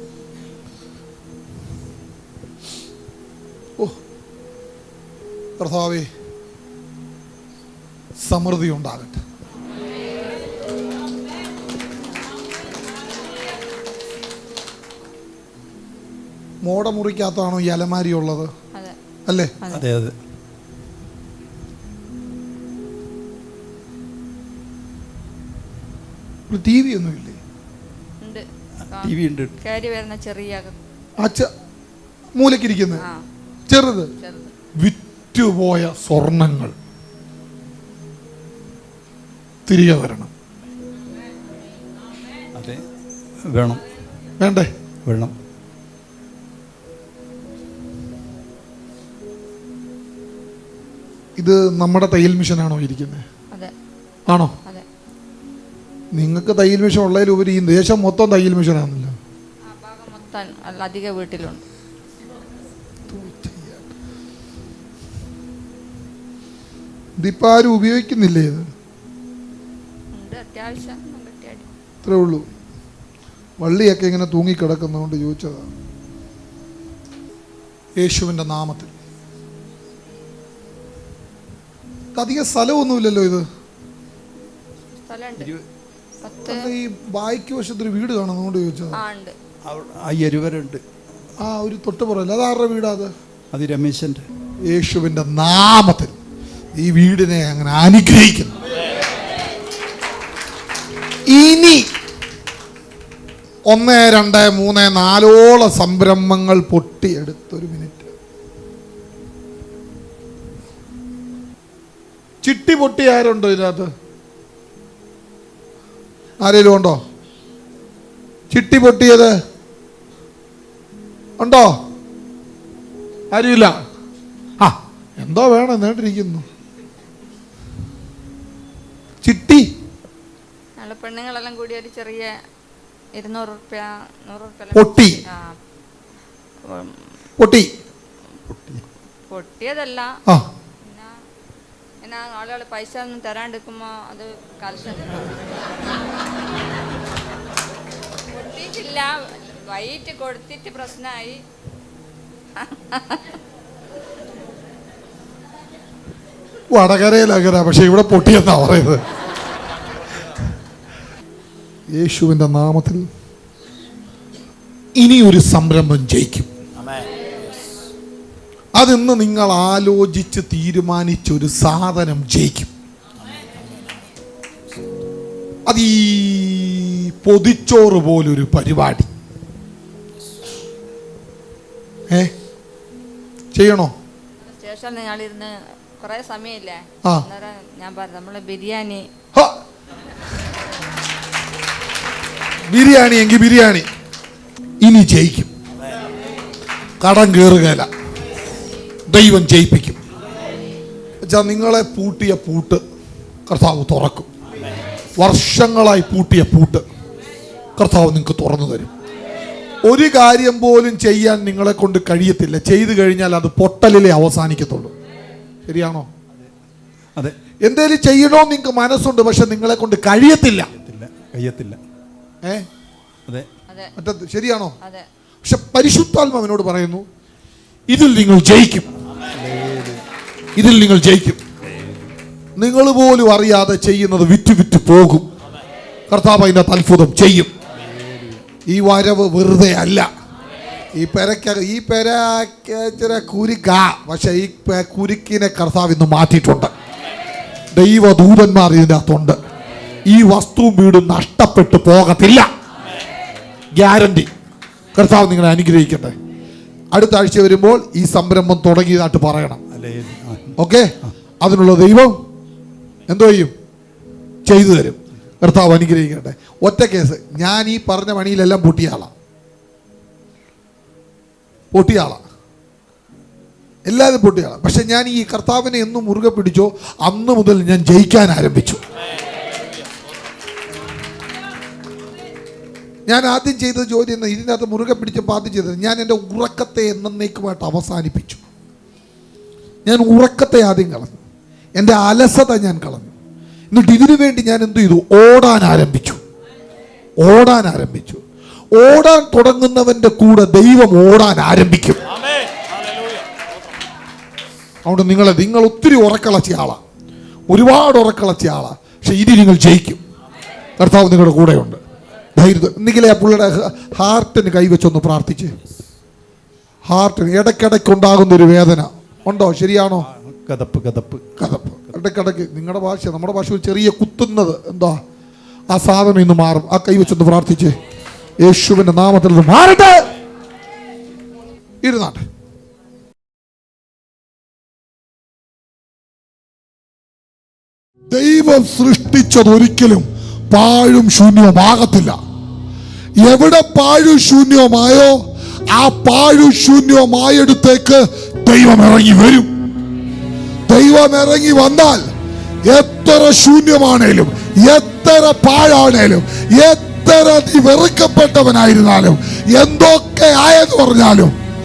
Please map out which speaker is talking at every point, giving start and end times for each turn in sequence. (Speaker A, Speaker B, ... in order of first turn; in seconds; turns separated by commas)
Speaker A: 5.6-6.1, Speaker A: 8.2-9.2, Speaker A: 16.6-18.5, Speaker A: 19.3-19.5, Speaker B: 19.7-20.1, Speaker A: 26.5-27.4, Speaker C: 28.2-30.8, Speaker B: 29.0-29.5, Speaker A: 31.2-31.5, Speaker A: 32.4-33.0, Speaker C: 33.0-33.2, Speaker A: 33.7-34.1, Speaker C: 34.2-34.5, Speaker A: 34.8-36.7, Speaker A: 39.7-40.3, Speaker B: 42.5-42.8, Speaker B: 43.5-43.8, Speaker A: 44.4-44.7, Speaker B: 45.0-45.3, Speaker A: 51.4-53.2, Speaker A: 54.3-54.5, Speaker A: 56.1-59.1, Speaker C: 59.6-61.6, Speaker A: 63.1-63.8, Speaker A: 67.2-68.7, Speaker C: 70.1-71.7, Speaker A: 72.0-72.5, Speaker A: 73.6-75.7, Speaker A: 78.0-78.9, Speaker A: 82.1-83.4, Speaker C: 84.9-85.5, Speaker C: 86.2-86.7, Speaker A: 86.5-89.0, Speaker C: 88.9-89.3, Speaker B: 89.7-90.8, Speaker A: 91.4-93.1, Speaker B: 93.5-94.3, Speaker A: 94.7-96.1, Speaker A: 96.7-98.5, Speaker A: 101.3-101.9, Speaker A: 103.7-108.1, Speaker A: 112.4-113.9, Speaker A: 116.4-117.0, Speaker A: 118.5-119.3, Speaker A: 121.4-121.7, Speaker A: 123.3-123.7, Speaker A: 124.6-126.4, Speaker A: 129.2-129.7, Speaker C: 130.8-132.3, Speaker C: 133.1-135.5, Speaker A: 134.7-135.2, Speaker C: 136.7-137.1, Speaker A: 137.4-137.7, Speaker B: 138.5-138.8, Speaker C: 139.3-140.1, Speaker C: 140.8-141.1, Speaker C: 142.0-145.3, Speaker C: 148.3-151.4, Speaker C: 152.6-153.2, Speaker A: 156.7-159.0, Speaker A: 161.9-163.0, Speaker A: 165.0-166.5, Speaker A: 168.7-172.7, Speaker A: 175.7-179.1, Speaker A: 183.5-183.9, Speaker C: 184.5-189.1, Speaker A: 192.7-193.9, Speaker A: 194.8-195.5, Speaker A: 197.0-197.9, Speaker A: 199.1-200.0, Speaker A: 201.2-202.8, Speaker A: 203.5-204.3, Speaker A: 205.2-206.8, Speaker A: 207.8-208.9, Speaker A: 209.8-214.9, Speaker A: 215.7-216.1, Speaker A: 217.6-220.7, Speaker B: 220.7-221.8, Speaker A: 224.0-224.7, Speaker A: 225.4-227.0, Speaker A: 227.9-228.9, Speaker B: 229.4-230.0, Speaker A: 230.6-231.4, Speaker A: 232.6-235.3, Speaker A: 236.1-237.5, Speaker B: 237.8-238.4, Speaker A: 238.7-240.1, Speaker A: 240.9-246.7, Speaker A: 247.7-249.4, Speaker A: 250.0-252.5, Speaker A: 253.7-254.3, Speaker A: 254.9-256.1, Speaker A: 256.9-259.6, Speaker B: 259.7-260.6, Speaker A: 260.6-262.1, Speaker A: 263.1-263.5, Speaker A: 264.4-269.1, Speaker A: 271.7-272.2, Speaker A: 273.9-278.8, Speaker A: 283.1-288.4, Speaker A: 289.8-291.2, Speaker A: 291.8-293.1, Speaker A: 293.7-296.2, Speaker A: 297.2-298.2, Speaker A: 298.8-302.0, Speaker A: 304.8-306.8, Speaker A: 307.5-310.0, Speaker A: 310.8-311.8, Speaker A: 312.4-315.5, Speaker A: 316.9-320.1, Speaker B: 320.1-321.2, Speaker A: 321.4-325.0, Speaker A: 325.7-327.8, Speaker A: 328.4-330.0, Speaker A: 331.8-332.2, Speaker A: 338.1-342.1, Speaker A: 343.2-345.2, Speaker A: 345.7-349.5, Speaker A: 350.7-352.0, Speaker A: 352.6-361.3